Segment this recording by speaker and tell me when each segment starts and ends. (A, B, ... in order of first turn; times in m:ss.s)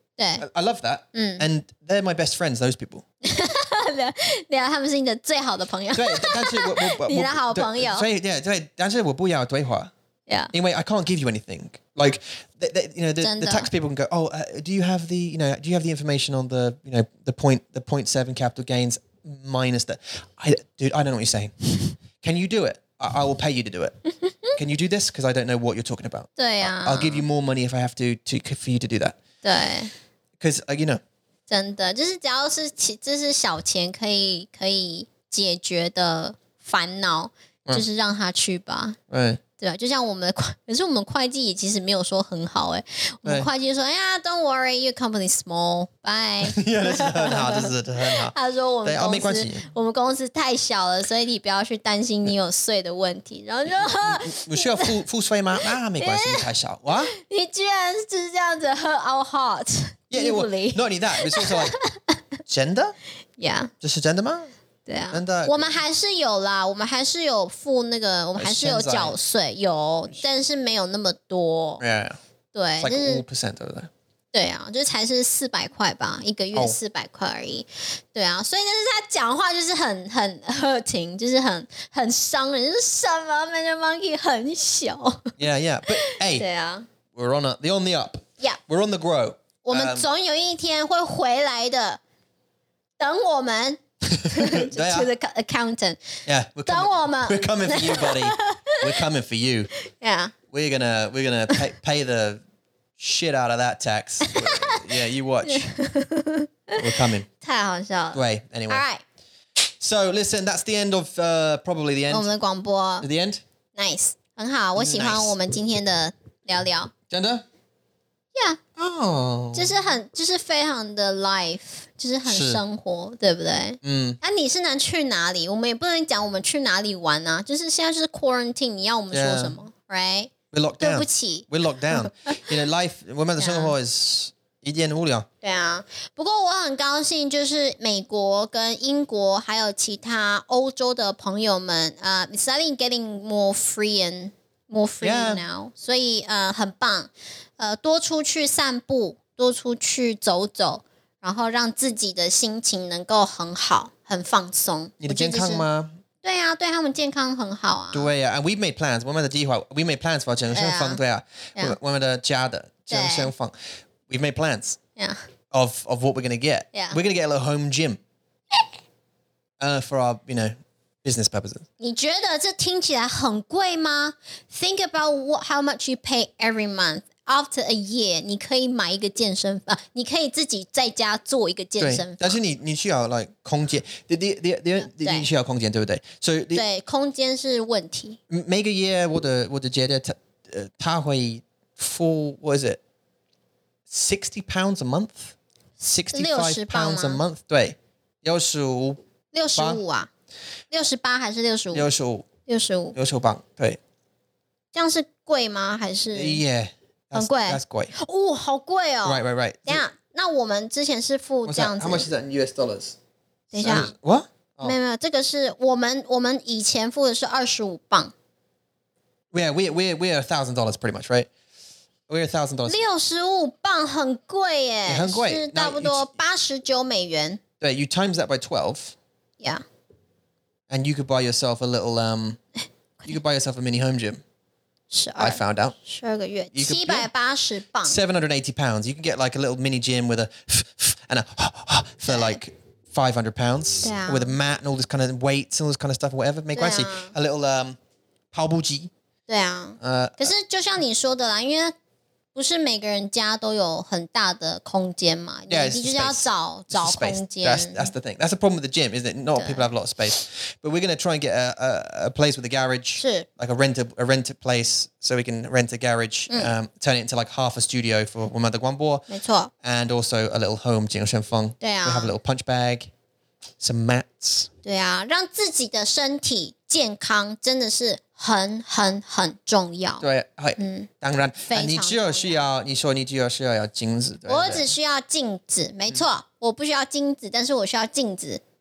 0:00.2-0:00.4 A
0:00.4-0:03.0 B
0:01.1-0:01.5 A
0:03.2-0:08.1 A
0:05.9-0:09.9 B
0:10.5-0:24.0 B
0:13.2-0:13.7 A
0:24.2-0:24.6 A
0:24.6-0:29.2 B
0:26.4-0:27.3 A
0:29.4-0:29.9 A
0:30.4-0:31.0 B
0:31.5-0:39.0 A
0:39.1-0:39.4 B
0:39.6-0:55.0 A
0:46.4-0:49.6 B
0:53.7-0:57.1 B
0:56.0-0:56.5 A
0:57.1-1:02.2 A
1:00.1-1:01.8 B
1:02.5-1:03.0 B
1:03.4-1:03.7 A
1:03.8-1:04.5 B
1:04.9-1:11.8 A
1:05.1-1:05.5 B
1:08.4-1:09.2 B
1:11.8-1:12.2 B
1:12.5-1:13.2 A
1:12.8-1:13.9 B
1:14.3-1:25.4 A
1:25.4-1:26.5 B
1:25.9-1:26.9 A
1:27.1-1:30.1 B
1:29.6-1:32.0 A
1:33.0-1:36.0 A
1:34.1-1:35.1 B
1:36.3-1:39.7 B
1:36.6-1:38.9 A
1:39.8-1:40.3 A
1:40.5-1:42.4 B
1:43.0-1:45.7 B
1:44.2-1:44.9 A
1:45.4-1:46.8 A
1:46.8-1:47.3 B
1:47.4-1:49.0 A
1:48.1-1:48.8 B
1:49.8-1:52.3 B
1:52.1-1:53.1 A
1:53.0-1:53.4 B
1:53.8-1:56.9 A
1:54.8-1:55.4 B
1:57.1-1:57.4 B
1:58.8-1:59.8 B
1:59.5-2:12.5 A
2:02.3-2:02.6 B
2:03.8-2:04.2 B
2:09.1-2:09.6 B
2:10.5-2:15.3 B
2:13.4-2:13.8 A
2:15.4-2:35.6 A
2:25.0-2:25.4 B
2:35.0-2:36.0 B
2:36.2-2:38.1 A
2:37.9-2:43.5 B
2:40.5-2:41.0 A
2:42.9-2:43.3 A
2:44.1-2:44.8 B
2:45.5-2:48.0 B
2:46.7-2:47.0 A
2:49.6-2:51.6 B
2:51.8-3:02.4 A
3:01.8-3:06.6 B
3:04.9-3:05.3 A
3:06.6-3:08.2 A
3:08.3-3:12.8 B
3:13.9-3:19.0 B
3:16.1-3:17.2 A
3:19.3-3:20.1 A
3:19.6-3:19.8 B
3:20.7-3:21.9 A
3:21.7-3:22.3 B
3:22.5-3:23.0 A
3:23.0-3:23.8 B
3:24.7-3:26.4 A
3:26.1-3:27.9 B
3:27.1-3:32.1 A
3:29.0-3:29.8 B
3:31.5-3:33.0 B
3:33.5-3:33.9 A
3:33.6-3:34.8 B
3:34.6-3:38.1 A
3:39.3-3:41.3 B
3:42.1-3:42.8 B
3:42.7-3:47.4 A
3:44.9-3:46.1 B
3:47.6-3:49.0 B
3:50.7-3:52.4 B
3:53.1-3:54.2 B
3:54.9-3:58.0 A
3:55.2-3:55.8 B
3:56.5-3:57.1 B
3:57.8-4:07.8 B
4:02.1-4:02.4 A
4:03.8-4:04.4 A
4:06.6-4:07.1 A
4:08.3-4:08.9 B
4:09.3-4:11.7 A
4:09.8-4:10.3 B
4:12.4-4:17.9 A
4:15.5-4:29.1 B
4:19.4-4:19.7 A
4:23.0-4:23.3 A
4:29.1-4:29.5 A
4:29.6-4:32.9 B
4:31.6-4:32.1 A
4:33.6-4:34.5 B
4:34.6-4:40.0 A
4:40.0-4:44.7 B
4:40.6-4:40.9 A
4:41.5-4:42.4 A
4:44.3-4:48.4 A